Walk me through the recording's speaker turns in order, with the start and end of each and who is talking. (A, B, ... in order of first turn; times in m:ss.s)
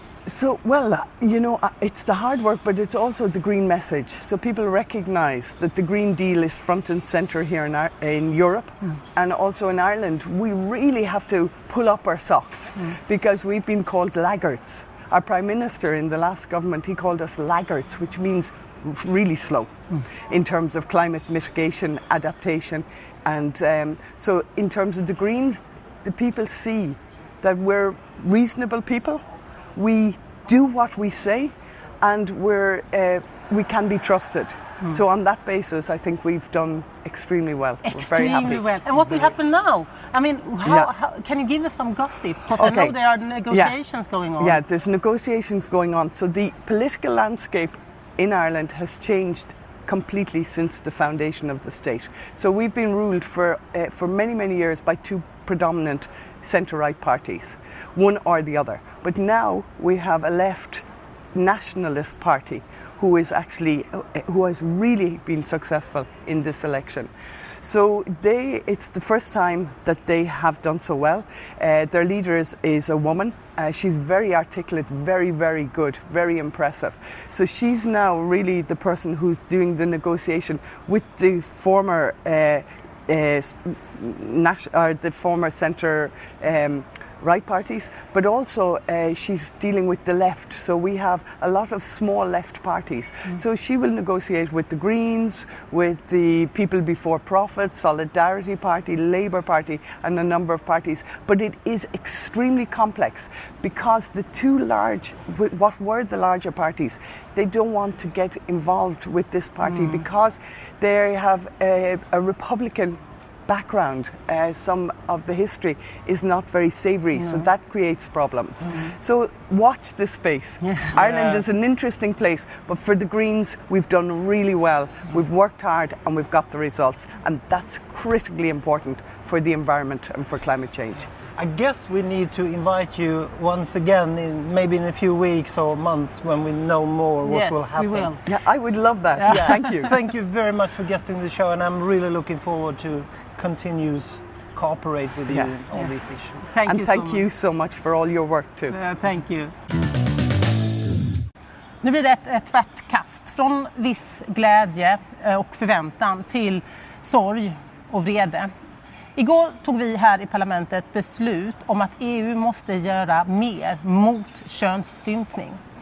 0:00.2-0:38.6 A
0:37.8-0:44.6 B
0:42.6-0:43.0 A
0:43.5-0:43.8 A
0:44.4-2:11.1 A
1:49.6-1:50.0 B
1:57.2-1:57.5 B
1:58.6-1:58.9 B
2:00.6-2:01.4 B
2:11.3-2:18.1 C
2:17.2-2:18.2 B
2:18.2-2:19.9 A
2:19.2-2:19.7 B
2:19.3-2:26.5 C
2:26.5-2:27.2 B
2:26.6-2:28.8 A
2:28.7-2:29.5 B
2:31.8-2:38.5 B
2:39.2-2:45.6 B